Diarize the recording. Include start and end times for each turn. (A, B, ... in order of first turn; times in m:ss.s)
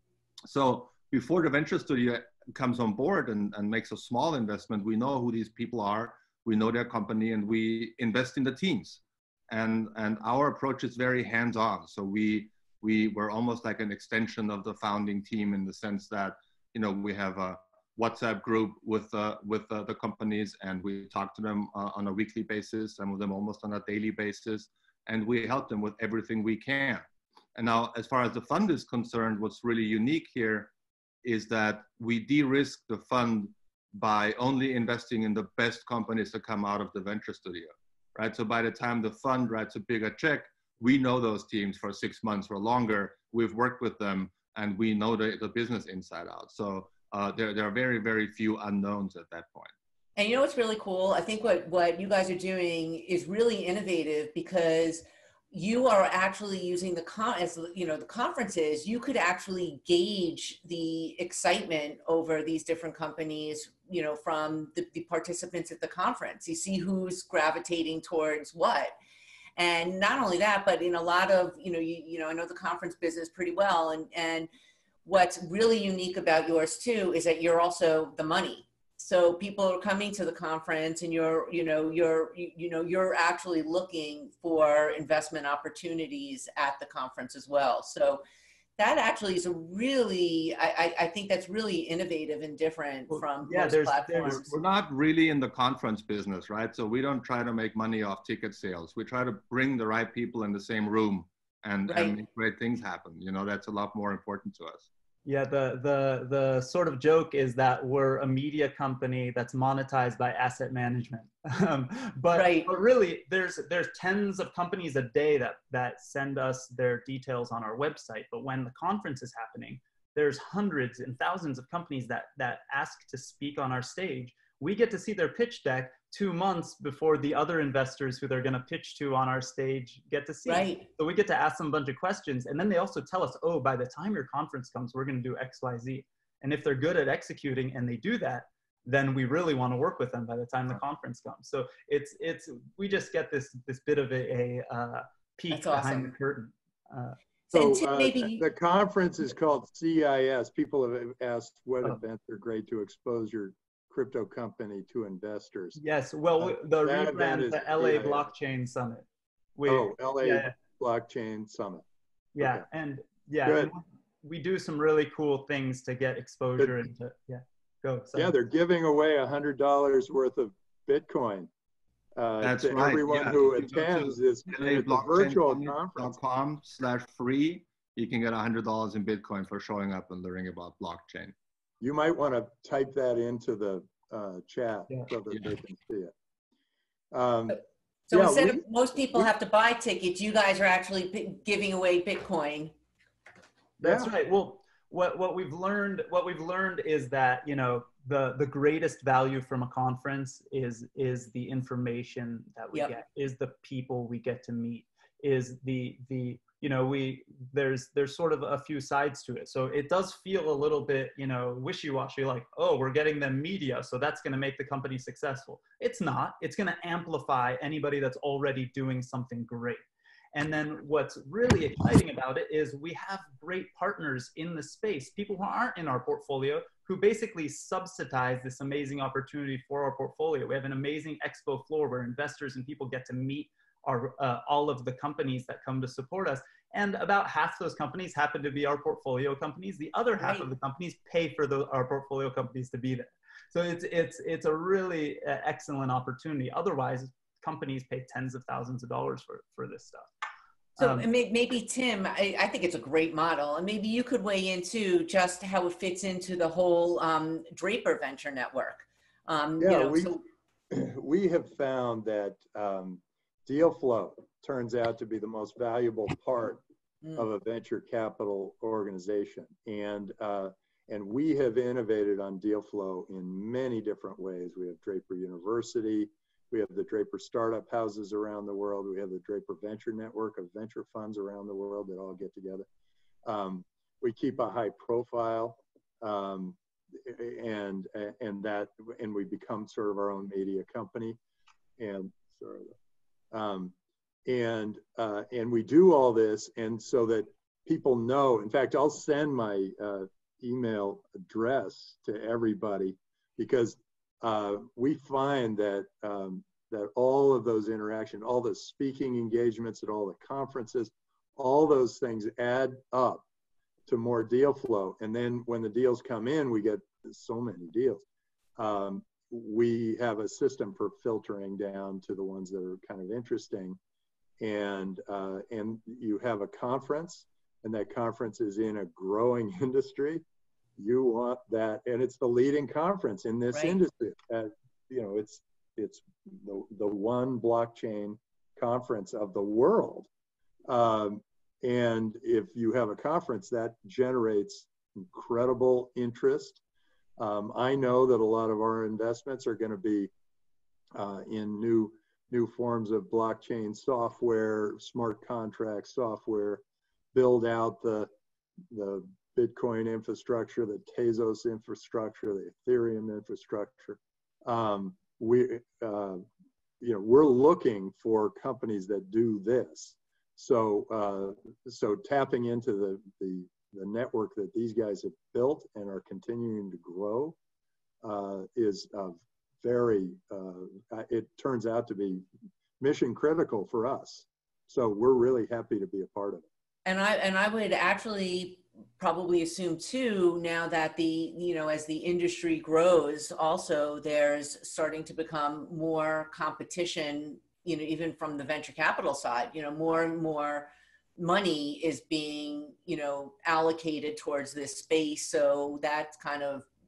0:00.5-0:30.7 A
0:31.2-0:49.7 A
0:50.2-1:09.0 B
1:09.6-1:14.5 B
1:15.0-1:28.2 B
1:28.8-1:34.5 B
1:33.1-1:34.5 C
1:34.2-1:44.8 A
1:41.9-1:42.1 B
1:45.2-2:27.2 C
1:52.3-1:52.7 B
2:10.4-2:10.9 B
2:25.5-2:26.1 B
2:27.5-2:28.4 B
2:27.5-2:35.8 D
2:35.8-2:40.5 C
2:36.4-2:38.2 D
2:39.6-2:41.8 D
2:42.3-2:48.3 C
2:42.4-2:42.6 D
2:43.4-2:43.7 D
2:48.1-2:51.5 D
2:52.2-2:56.2 D
2:52.4-3:01.3 A
3:01.8-3:06.1 D
3:07.1-3:07.6 D
3:08.1-3:12.7 B
3:08.1-3:08.6 D
3:13.8-3:39.8 C
3:13.8-3:14.1 D
3:40.3-4:10.1 C
4:00.2-4:00.5 B
4:10.8-4:11.1 C
4:10.8-4:20.2 B
4:19.6-4:20.2 D
4:20.7-4:26.6 D
4:27.2-4:42.7 D
4:43.2-4:51.2 D
4:51.8-4:52.7 D
4:53.3-4:53.7 D
4:54.2-5:13.2 D
5:13.9-5:18.0 D
5:18.6-5:23.8 D
5:24.4-5:30.2 D
5:30.8-5:40.1 D
5:33.5-5:33.8 B
5:40.7-5:46.6 D
5:47.2-5:50.1 D
5:50.9-5:56.6 D
5:57.1-5:58.1 D
5:58.7-6:06.2 D
6:06.8-6:17.4 D
6:18.0-6:22.2 D
6:22.8-6:26.4 D
6:26.8-6:46.7 B